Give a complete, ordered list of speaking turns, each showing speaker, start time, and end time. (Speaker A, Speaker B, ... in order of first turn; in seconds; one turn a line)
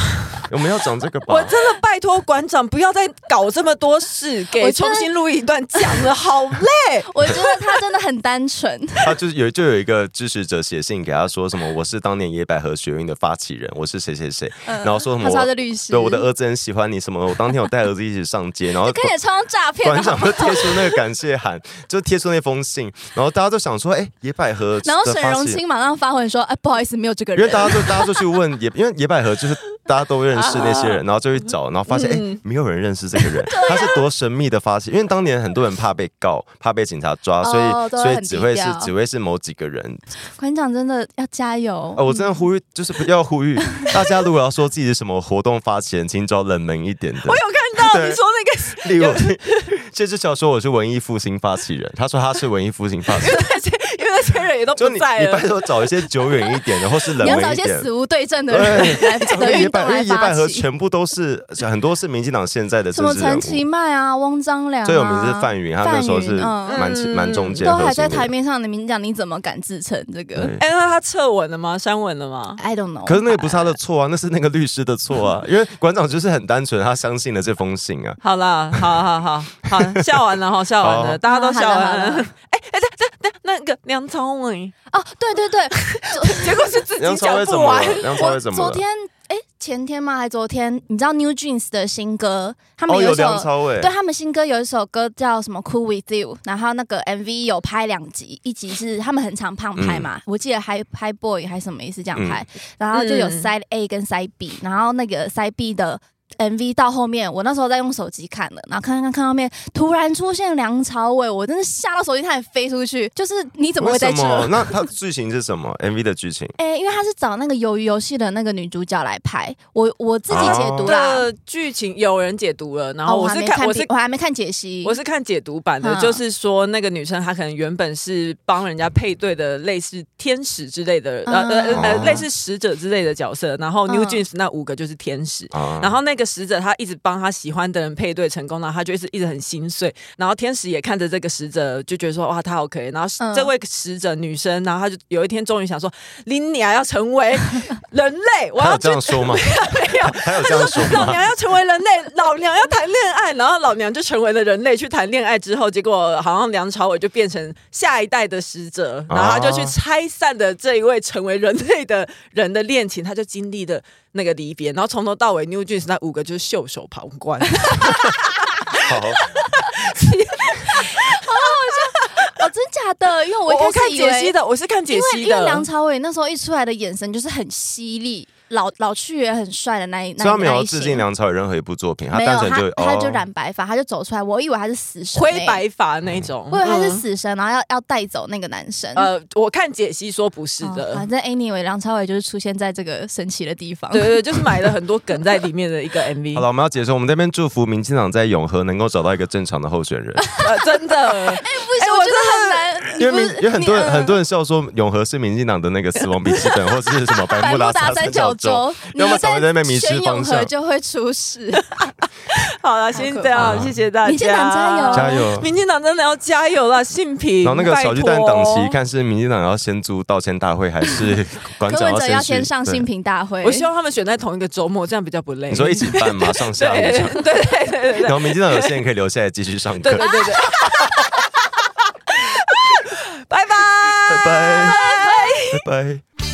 Speaker A: 0.5-1.6
Speaker B: 1.3-7.5
Speaker C: 4.6-5.1
Speaker C: 5.8-6.0
Speaker C: 7.1-9.2
Speaker A: 9.0-19.1
Speaker C: 14.7-16.3
Speaker C: 18.8-21.0
Speaker A: 19.8-25.6
Speaker C: 24.8-28.1
Speaker A: 27.4-40.0
Speaker B: 30.4-31.0
Speaker B: 31.9-32.4
Speaker C: 33.5-34.0
Speaker C: 37.4-38.9
Speaker C: 40.4-42.4
Speaker A: 42.0-48.2
Speaker B: 47.2-49.7
Speaker A: 48.8-53.4
Speaker B: 53.2-56.5
Speaker A: 54.8-57.9
Speaker C: 57.2-60.7
Speaker A: 58.5-63.6
Speaker C: 62.9-66.9
Speaker A: 64.8-68.3
Speaker B: 66.7-67.8
Speaker C: 67.6-70.6
Speaker A: 70.4-70.6
Speaker B: 70.6-72.6
Speaker C: 72.6-73.8
Speaker A: 73.1-78.2
Speaker B: 78.2-84.7
Speaker A: 79.7-80.3
Speaker A: 80.8-81.2
Speaker C: 81.3-82.3
Speaker C: 84.9-86.8
Speaker B: 85.7-88.3
Speaker A: 87.0-88.8
Speaker C: 88.2-114.8
Speaker A: 92.9-93.9
Speaker A: 99.8-100.1
Speaker A: 102.2-102.4
Speaker B: 102.9-103.5
Speaker A: 113.8-116.6
Speaker C: 116.6-121.3
Speaker A: 120.3-120.9
Speaker B: 120.3-123.9
Speaker C: 123.1-125.0
Speaker B: 124.8-172.4
Speaker C: 125.8-126.2
Speaker C: 131.3-132.2
Speaker A: 131.8-132.3
Speaker C: 133.9-134.2
Speaker A: 135.5-135.9
Speaker C: 143.2-143.5
Speaker A: 148.6-151.2
Speaker A: 159.1-159.8
Speaker C: 167.6-168.2
Speaker A: 168.8-169.2
Speaker C: 170.0-174.3
Speaker B: 173.4-175.7
Speaker C: 174.9-181.1
Speaker A: 180.2-183.2
Speaker C: 182.1-185.6
Speaker B: 185.2-187.0
Speaker C: 186.5-189.1
Speaker B: 188.9-191.1
Speaker C: 190.6-194.4
Speaker B: 193.9-196.5
Speaker A: 196.3-200.2
Speaker C: 200.2-200.5
Speaker B: 200.4-202.8
Speaker C: 201.1-204.2
Speaker A: 202.9-210.5
Speaker B: 206.2-206.7
Speaker C: 207.3-211.7
Speaker B: 211.8-218.8
Speaker C: 212.9-215.2
Speaker A: 213.4-213.8
Speaker A: 214.9-215.5
Speaker A: 217.4-222.8
Speaker C: 221.7-223.7
Speaker B: 223.4-228.8
Speaker A: 225.5-227.3
Speaker A: 228.0-231.1
Speaker B: 229.8-235.7
Speaker C: 230.0-230.3
Speaker A: 234.1-234.9
Speaker A: 235.5-236.0